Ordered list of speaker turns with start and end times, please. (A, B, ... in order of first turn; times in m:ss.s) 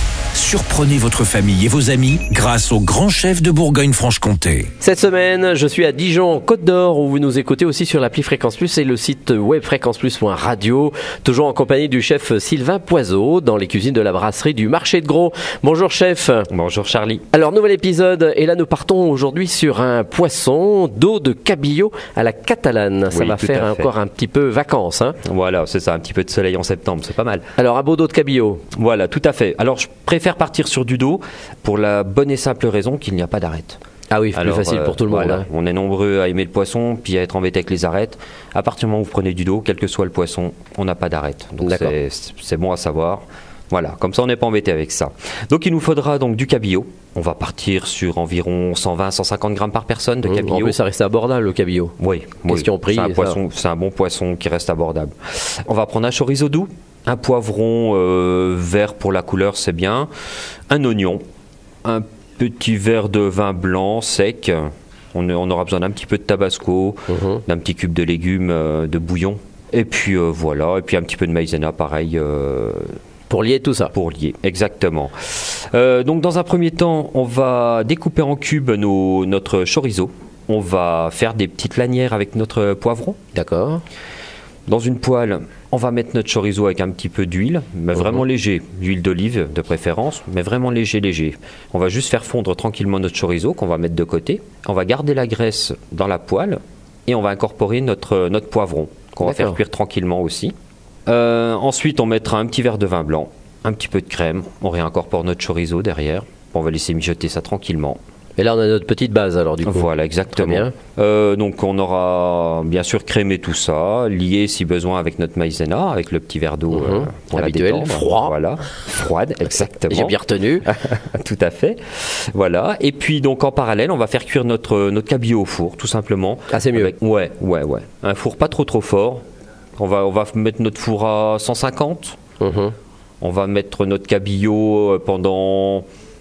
0:00.3-0:04.7 A
0:04.8-0:16.5 B
0:16.5-0:17.2 C
0:17.3-0:25.2 B
0:23.1-0:23.9 C
0:25.2-0:27.4 C
0:27.6-0:28.6 B
0:28.7-0:33.8 C
0:34.1-0:35.4 B
0:34.3-0:50.8 C
0:41.6-0:41.9 B
0:50.2-0:51.9 B
0:52.0-1:00.1 C
0:52.4-0:53.4 B
1:00.7-1:01.2 C
1:01.8-1:12.9 C
1:07.1-1:07.4 B
1:13.3-1:13.9 B
1:13.9-1:23.2 C
1:23.3-1:23.8 B
1:24.7-1:40.5 C
1:39.2-1:39.6 B
1:41.1-1:48.0 C
1:48.4-1:50.7 B
1:49.6-2:09.2 C
1:56.7-1:58.3 B
1:59.9-2:00.7 B
2:06.5-2:06.9 B
2:09.8-2:12.2 C
2:12.4-2:12.8 B
2:13.2-2:15.9 C